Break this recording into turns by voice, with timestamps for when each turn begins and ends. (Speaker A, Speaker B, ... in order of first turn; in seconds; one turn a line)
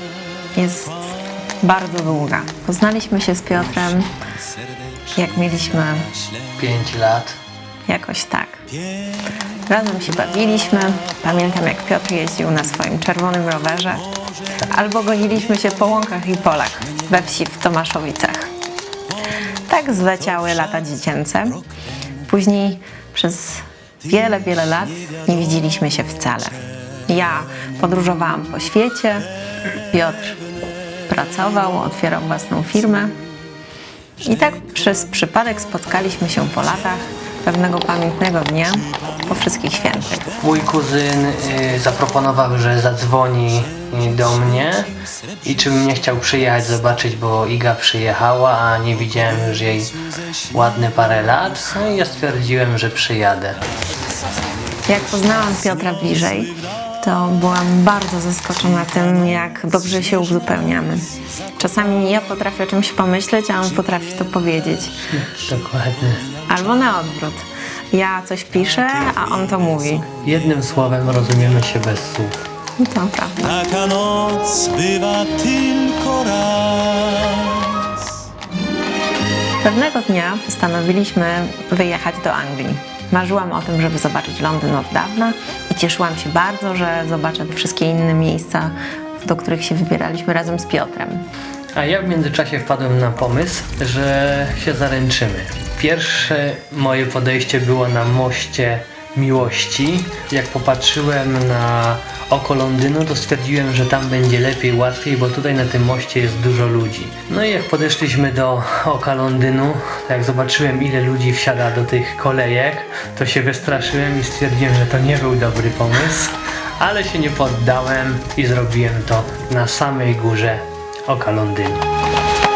Speaker A: 0.5-4.1
Speaker A: 5.1-6.1
Speaker B: 6.5-7.4
Speaker A: 7.8-8.6
Speaker A: 9.7-18.5
Speaker A: 19.7-21.6
Speaker A: 22.2-30.4
Speaker A: 31.1-33.2
Speaker A: 34.2-40.4
Speaker B: 40.4-44.9
Speaker B: 45.4-50.0
Speaker B: 50.5-53.6
Speaker A: 54.9-65.1
Speaker B: 65.1-66.2
Speaker A: 66.5-70.1
Speaker B: 70.2-72.4
Speaker A: 72.8-73.6
Speaker C: 73.6-78.0
Speaker A: 79.6-91.2
Speaker B: 91.7-121.8